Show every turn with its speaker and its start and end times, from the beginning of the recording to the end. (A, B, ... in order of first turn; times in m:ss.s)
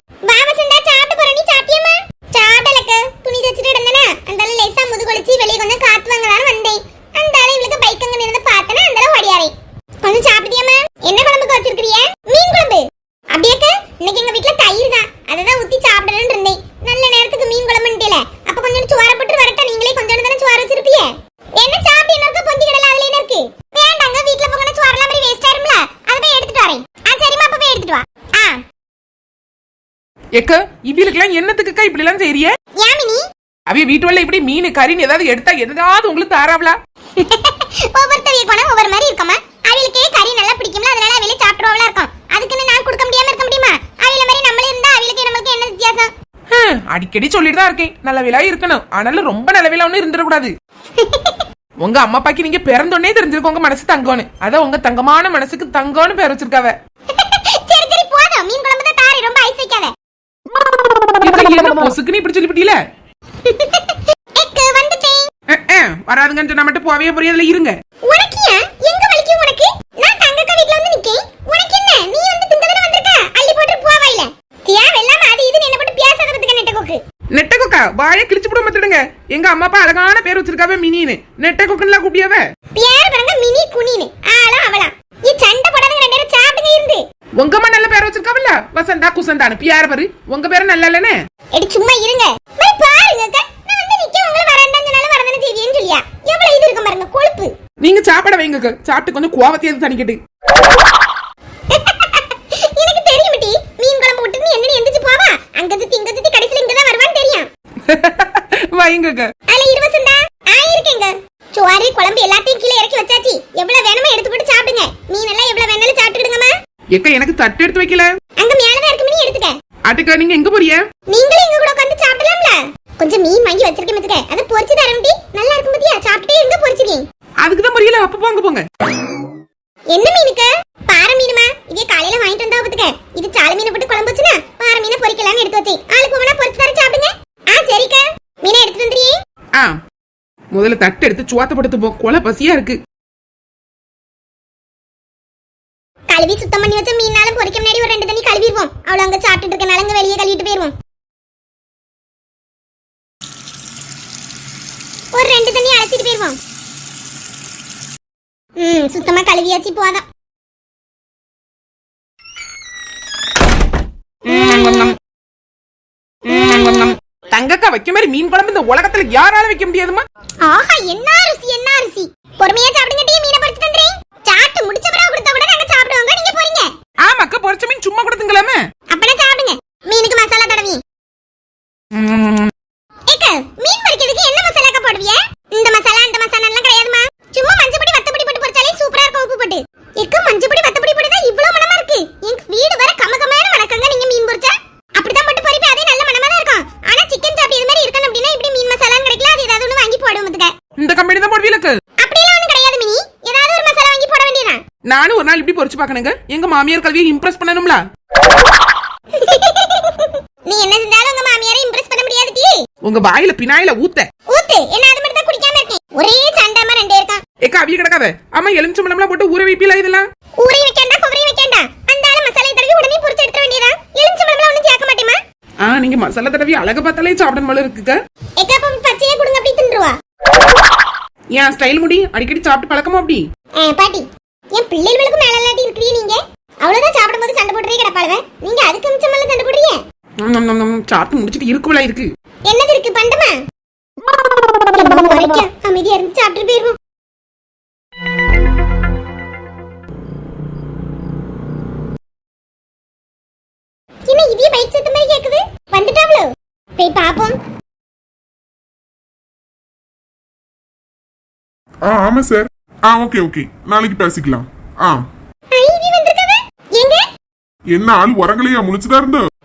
0:00.3-0:28.6 A
0:30.4-0:32.5 B
0:32.8-0:33.2 A
0:33.7-0:36.8 B
0:37.2-0:46.1 A
0:46.5-0:50.5 B
0:51.0-0:51.4 A
0:51.8-0:56.8 B
0:57.1-0:59.9 A
1:01.2-1:02.8 B
1:03.4-1:05.3 A
1:05.5-1:07.8 B
1:08.1-1:17.0 A
1:17.3-1:22.4 B
1:22.8-1:27.0 A
1:27.4-1:31.2 B
1:31.5-1:37.5 A
1:37.8-1:40.2 B
1:41.7-1:47.5 A
1:47.9-1:49.3 B
1:49.5-1:56.5 A
1:56.9-1:58.1 B
1:58.4-1:59.5 A
1:59.9-2:00.8 B
2:01.1-2:07.0 A
2:07.4-2:08.6 B
2:09.9-2:19.1 A
2:20.5-2:22.8 B
2:26.1-2:30.7 A
2:35.1-2:36.4 A
2:38.6-2:40.0 A
2:44.3-2:45.0 B
2:46.3-2:50.0 B
2:50.4-2:56.7 A
2:57.0-2:58.6 B
2:58.9-3:00.8 A
3:01.9-3:02.5 B
3:03.1-3:20.5 A
3:20.8-3:21.8 B
3:22.0-3:24.6 A
3:24.9-3:27.8 B
3:29.2-3:32.6 A
3:32.8-3:34.1 B
3:34.3-3:37.2 A
3:37.4-3:40.0 B
3:40.4-3:45.2 A
3:45.6-3:48.0 B
3:48.4-3:50.0 A
3:51.3-3:53.2 B
3:53.6-3:59.8 A
4:00.2-4:02.1 B
4:02.5-4:03.4 A
4:04.7-4:06.8 A
4:14.1-4:17.4 A
4:21.8-4:25.0 C
4:25.5-4:27.0 A
4:27.7-4:29.2 C